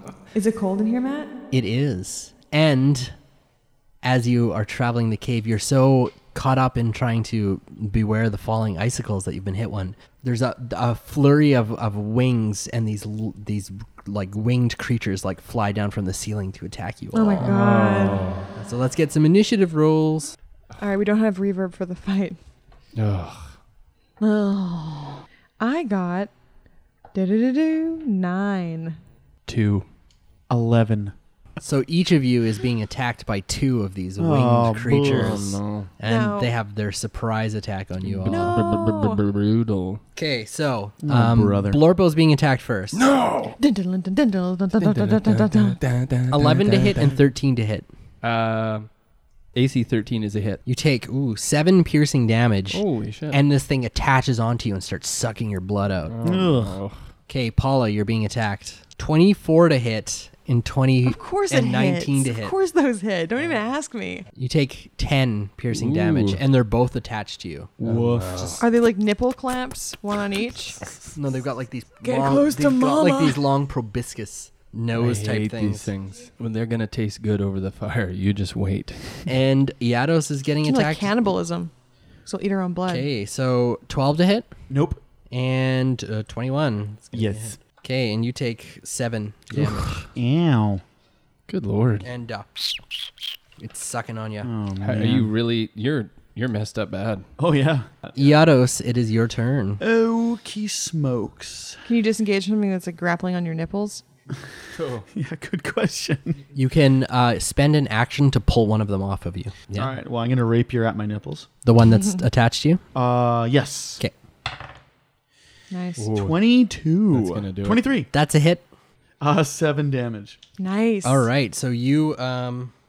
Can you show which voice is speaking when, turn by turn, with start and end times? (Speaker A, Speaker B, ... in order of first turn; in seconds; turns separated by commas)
Speaker A: 0.3-1.3, Speaker B: 1.5-3.1, Speaker B: 4.0-17.5, Speaker A: 17.1-18.2, Speaker C: 17.4-18.5, Speaker B: 18.5-20.4, Speaker A: 20.8-22.4, Speaker C: 22.9-23.5, Speaker A: 24.2-26.3, Speaker A: 27.1-29.0, Speaker C: 29.5-29.9, Speaker D: 30.5-31.1, Speaker B: 31.6-38.6, Speaker D: 34.2-35.6, Speaker C: 35.0-35.9, Speaker A: 36.0-36.5, Speaker C: 38.0-40.0, Speaker A: 38.3-39.2, Speaker B: 40.2-43.1, Speaker D: 41.0-41.8, Speaker C: 42.9-43.6, Speaker A: 43.6-45.8, Speaker C: 44.8-47.2, Speaker B: 46.3-47.9, Speaker C: 48.2-48.9, Speaker C: 49.5-50.6, Speaker B: 50.7-56.1, Speaker C: 52.7-53.4, Speaker C: 56.1-57.0, Speaker D: 56.2-56.8, Speaker B: 57.3-62.5, Speaker A: 61.1-64.3, Speaker B: 64.3-67.7, Speaker C: 65.7-66.4, Speaker D: 67.8-68.6, Speaker C: 67.8-68.6, Speaker A: 68.6-70.8, Speaker B: 71.1-75.9, Speaker A: 72.0-73.4, Speaker C: 74.9-79.2, Speaker B: 79.3-81.2, Speaker A: 80.6-81.7, Speaker A: 82.3-83.1, Speaker B: 82.9-84.5, Speaker D: 84.7-85.0, Speaker B: 85.3-90.1, Speaker D: 87.1-87.6, Speaker D: 89.6-90.8, Speaker C: 91.5-92.1, Speaker B: 92.0-92.7, Speaker B: 93.6-94.5, Speaker D: 94.4-95.3, Speaker C: 94.8-97.3, Speaker D: 97.4-98.2, Speaker B: 98.2-99.8, Speaker D: 99.8-101.8, Speaker A: 101.9-104.0, Speaker C: 104.7-105.1, Speaker D: 105.1-106.4, Speaker B: 106.5-109.9, Speaker D: 109.8-111.5, Speaker B: 111.6-112.8, Speaker D: 113.0-114.0, Speaker A: 115.7-116.1, Speaker C: 116.0-116.4, Speaker D: 116.1-118.1, Speaker C: 117.1-117.9, Speaker B: 118.1-118.6, Speaker D: 119.2-120.4, Speaker A: 120.6-121.3, Speaker B: 121.0-122.7